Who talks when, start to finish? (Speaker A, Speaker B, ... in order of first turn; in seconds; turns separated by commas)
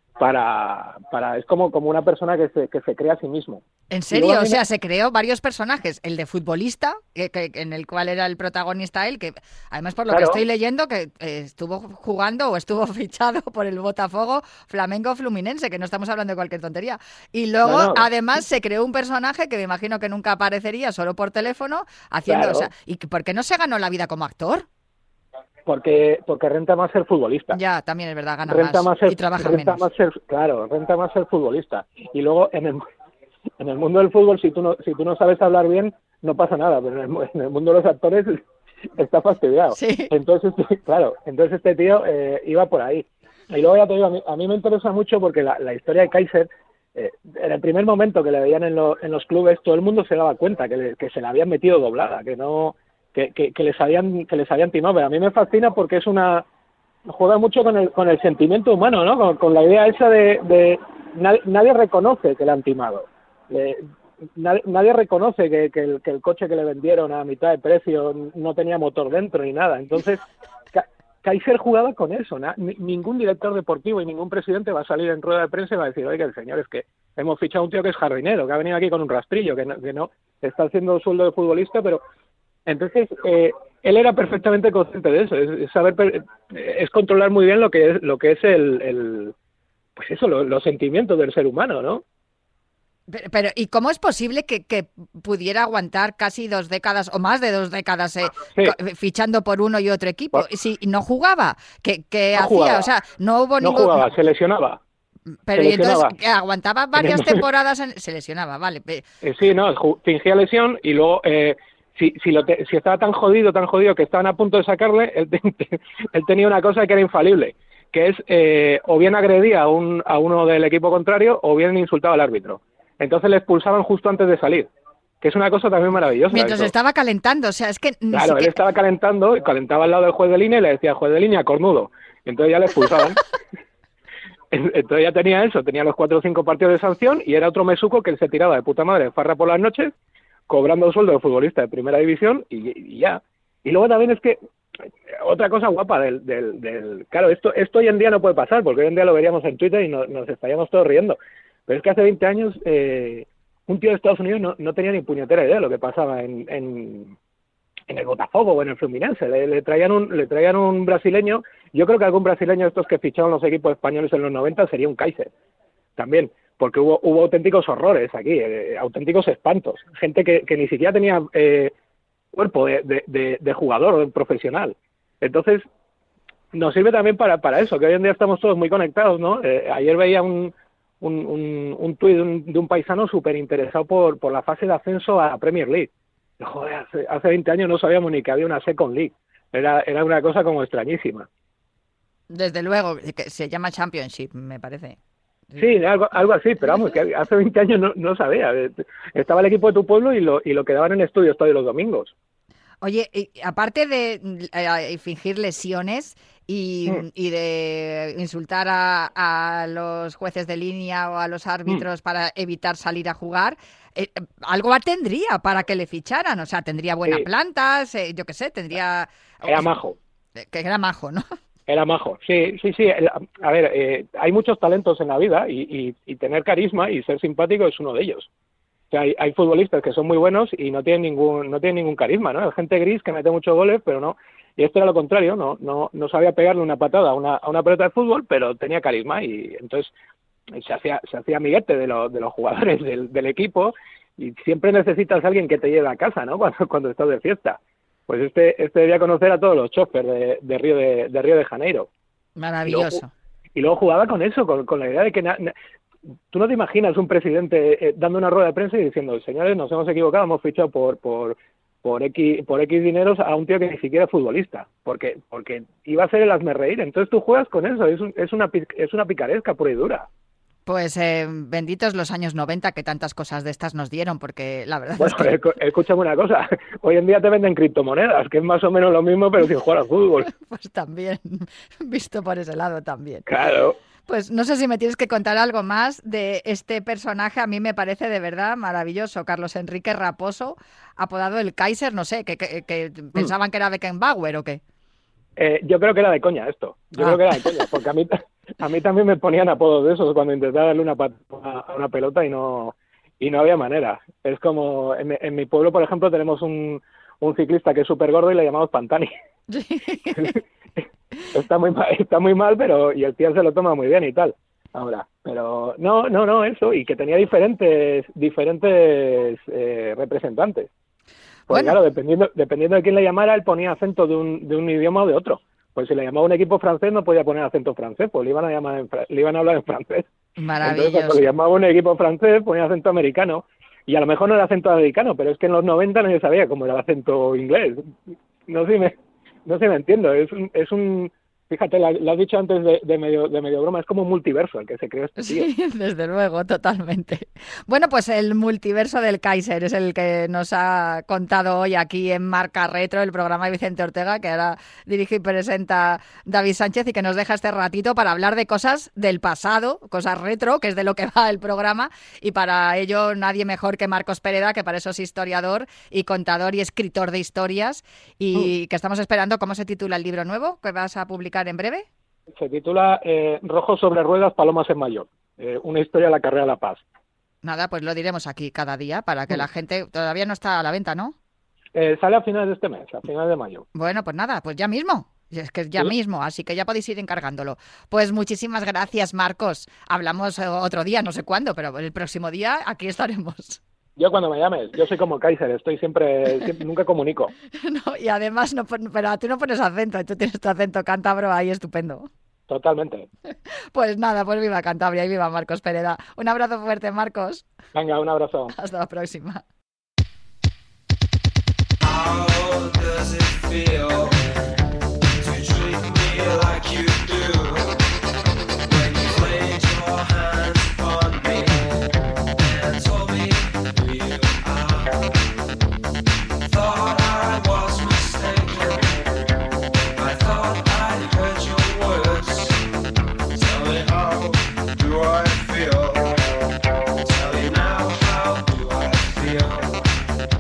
Speaker A: 0.2-4.6, Speaker B: 3.9-24.7, Speaker A: 10.1-10.4, Speaker A: 17.6-18.1, Speaker A: 22.3-22.7, Speaker A: 25.7-27.6, Speaker B: 27.5-29.8, Speaker A: 28.5-32.8, Speaker A: 33.6-38.4, Speaker A: 39.0-56.5, Speaker B: 39.7-40.1, Speaker A: 57.1-63.8, Speaker A: 64.4-70.2, Speaker A: 70.7-82.0, Speaker A: 82.7-89.3, Speaker A: 90.0-92.0, Speaker B: 93.1-104.0, Speaker A: 102.4-102.9, Speaker A: 103.6-104.8, Speaker B: 105.5-109.1, Speaker A: 105.6-106.1, Speaker A: 107.0-107.4, Speaker A: 109.2-124.7, Speaker A: 125.2-126.7, Speaker B: 126.3-128.6, Speaker A: 128.1-133.2, Speaker A: 134.5-139.9, Speaker A: 140.5-144.4, Speaker A: 145.2-157.2, Speaker A: 157.9-165.3, Speaker A: 166.0-171.7, Speaker A: 172.3-175.6, Speaker A: 176.5-191.3, Speaker B: 192.3-195.0, Speaker A: 195.6-202.1, Speaker B: 202.8-219.7, Speaker A: 219.5-220.0, Speaker B: 220.4-221.2, Speaker A: 221.7-228.3, Speaker A: 228.9-239.9, Speaker A: 240.5-251.9, Speaker B: 252.4-253.1, Speaker A: 252.7-253.0, Speaker A: 253.6-255.5, Speaker A: 256.3-270.1, Speaker B: 270.7-275.4, Speaker A: 275.0-280.3, Speaker B: 280.3-283.3, Speaker A: 283.3-283.8, Speaker B: 284.1-294.6, Speaker A: 295.4-309.1, Speaker B: 309.5-310.3, Speaker A: 310.1-310.4, Speaker A: 311.3-320.7, Speaker B: 321.5-321.8, Speaker A: 321.5-330.1, Speaker B: 330.4-331.3, Speaker A: 330.6-337.8, Speaker A: 338.5-338.9, Speaker A: 339.5-345.5, Speaker B: 345.2-371.9, Speaker A: 372.4-376.8, Speaker B: 377.4-381.1, Speaker A: 381.8-383.7, Speaker B: 383.8-393.6, Speaker A: 394.0-397.3, Speaker B: 397.6-402.1, Speaker A: 402.5-403.1, Speaker B: 403.7-407.4, Speaker A: 407.7-408.5, Speaker B: 408.5-409.4, Speaker C: 411.8-414.2, Speaker C: 415.2-417.8, Speaker C: 418.7-421.7, Speaker C: 422.4-425.2, Speaker C: 426.4-429.0, Speaker C: 429.9-432.6, Speaker C: 433.3-436.3, Speaker C: 437.0-439.9